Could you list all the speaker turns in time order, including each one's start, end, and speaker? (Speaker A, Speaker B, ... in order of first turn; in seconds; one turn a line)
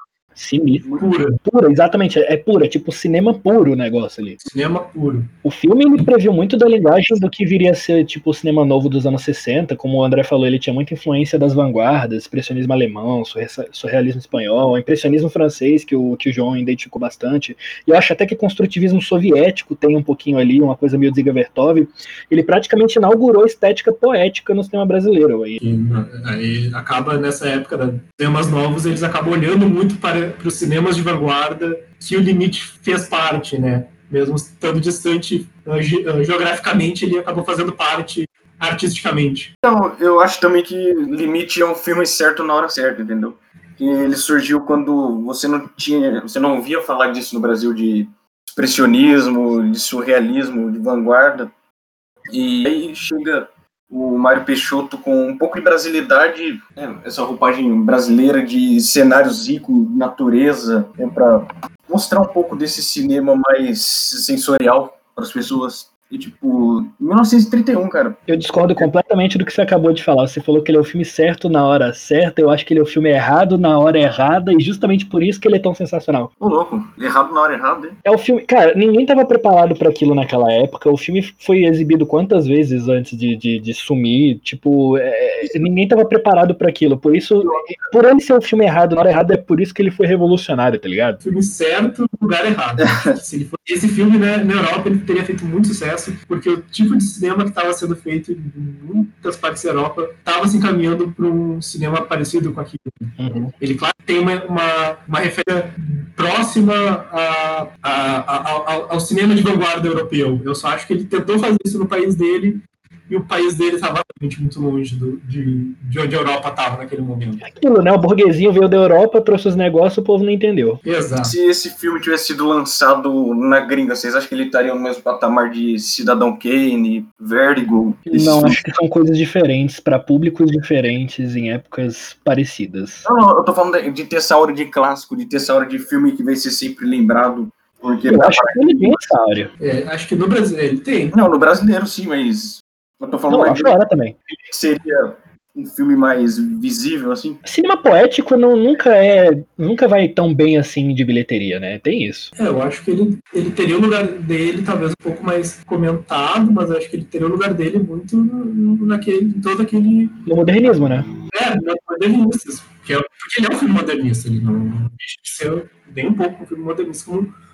Speaker A: 0.3-4.4
Speaker B: 1.0-1.4
Speaker B: 4.4-5.3
Speaker A: 5.4-25.6
Speaker B: 25.6-39.5
Speaker C: 39.6-51.5
Speaker C: 52.3-68.2
Speaker A: 68.3-76.3
Speaker C: 76.4-78.0
Speaker A: 78.0-91.2
Speaker B: 91.2-117.4
Speaker A: 103.2-103.5
Speaker A: 117.4-120.8
Speaker B: 120.8-121.3
Speaker C: 121.2-128.7
Speaker A: 128.1-133.1
Speaker C: 133.0-138.9
Speaker A: 138.1-139.5
Speaker B: 139.6-141.2
Speaker C: 141.1-143.7
Speaker A: 143.3-144.2
Speaker C: 144.3-147.4
Speaker A: 147.4-152.3
Speaker B: 152.3-160.2
Speaker A: 160.2-161.1
Speaker B: 161.3-167.3